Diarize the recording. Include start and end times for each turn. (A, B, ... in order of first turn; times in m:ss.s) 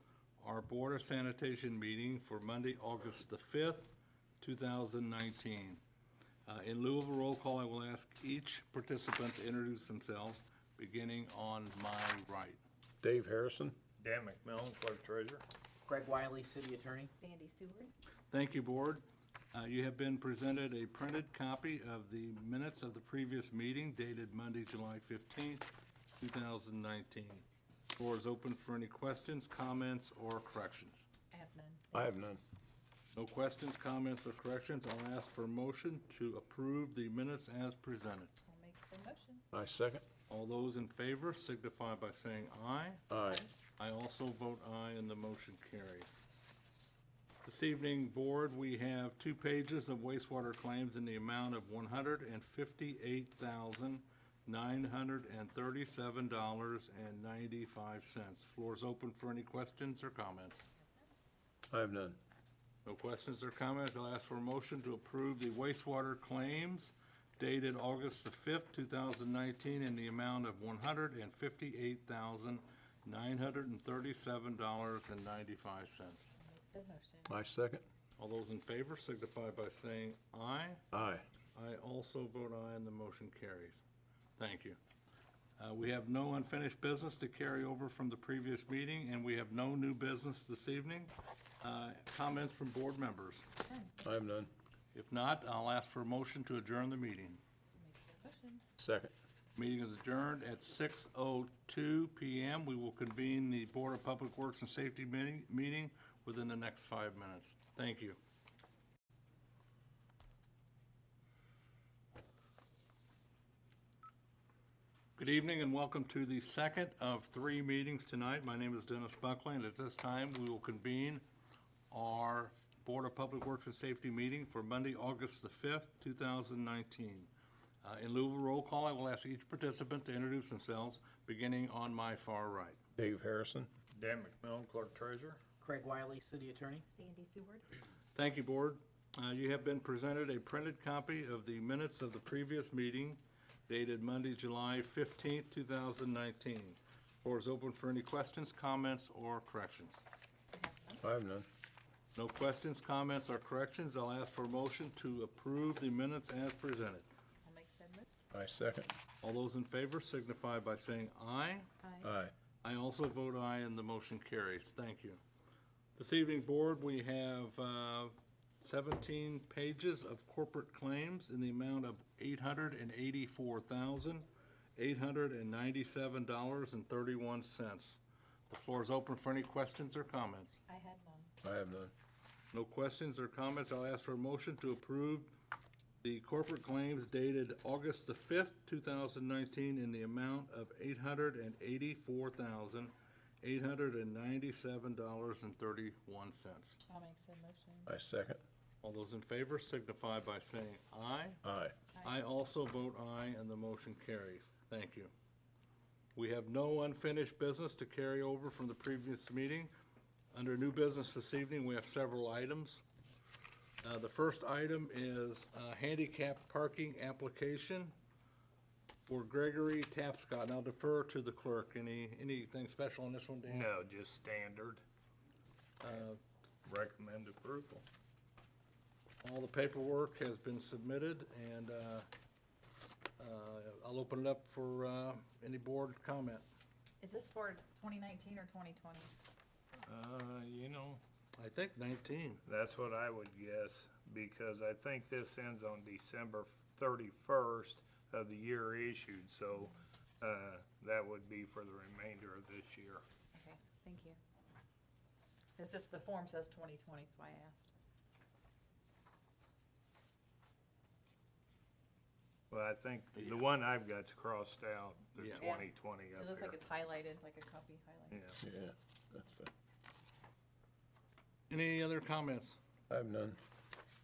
0:00.4-0:05.8 A
0:06.5-0:12.6 A
0:13.0-0:13.8 B
0:14.0-0:15.4 C
0:15.9-0:17.1 D
0:17.2-0:17.9 E
0:18.3-0:31.0 A
0:31.3-0:32.2 E
0:31.9-0:32.4 B
0:33.1-0:38.3 A
0:38.4-0:39.4 E
0:39.5-0:40.0 B
0:40.3-0:43.0 A
0:43.1-0:43.5 B
0:43.8-0:46.1 A
0:47.4-1:00.7 A
1:01.7-1:02.2 B
1:02.8-1:16.3 A
1:16.4-1:17.3 E
1:17.3-1:17.8 B
1:18.2-1:20.9 A
1:20.9-1:21.2 B
1:21.6-1:23.8 A
1:24.4-1:24.8 A
1:25.6-1:33.4 A
1:33.6-1:34.0 E
1:34.0-1:34.5 B
1:34.9-1:37.4 A
1:37.8-1:38.6 E
1:38.8-1:39.1 B
1:39.6-1:48.2 A
1:55.2-2:01.2 A
2:01.9-2:07.3 A
2:07.8-2:12.8 A
2:13.0-2:13.7 B
2:13.9-2:15.4 C
2:15.6-2:16.8 D
2:16.9-2:17.7 E
2:18.2-2:30.0 A
2:30.5-2:31.0 E
2:31.0-2:31.5 B
2:32.2-2:37.1 A
2:37.4-2:38.1 E
2:38.3-2:38.9 B
2:39.2-2:41.7 A
2:41.8-2:42.1 E
2:42.0-2:42.3 B
2:42.6-2:45.2 A
2:46.0-3:00.6 A
3:00.7-3:01.3 E
3:01.4-3:01.9 B
3:02.5-3:05.3 A
3:06.0-3:16.8 A
3:16.9-3:17.9 E
3:17.9-3:18.4 B
3:18.8-3:21.4 A
3:21.4-3:21.8 B
3:21.9-3:22.2 E
3:22.0-3:25.1 A
3:26.2-3:29.7 A
3:30.3-3:32.8 A
3:33.8-3:37.9 A
3:39.1-3:43.7 A
3:43.5-3:44.8 C
3:45.8-3:46.2 A
3:46.6-3:47.8 C
3:49.2-3:52.1 A
3:53.2-3:56.5 A
3:57.0-3:59.1 E
3:59.9-4:01.0 C
4:01.4-4:02.4 A
4:02.5-4:13.0 C
4:13.3-4:14.2 E
4:15.6-4:17.7 E
4:22.5-4:26.6 C
4:23.2-4:23.4 A
4:25.2-4:25.4 A
4:25.4-4:28.2 E
4:28.1-4:28.4 C
4:28.4-4:29.5 B
4:31.5-4:32.6 A
4:32.9-4:33.4 B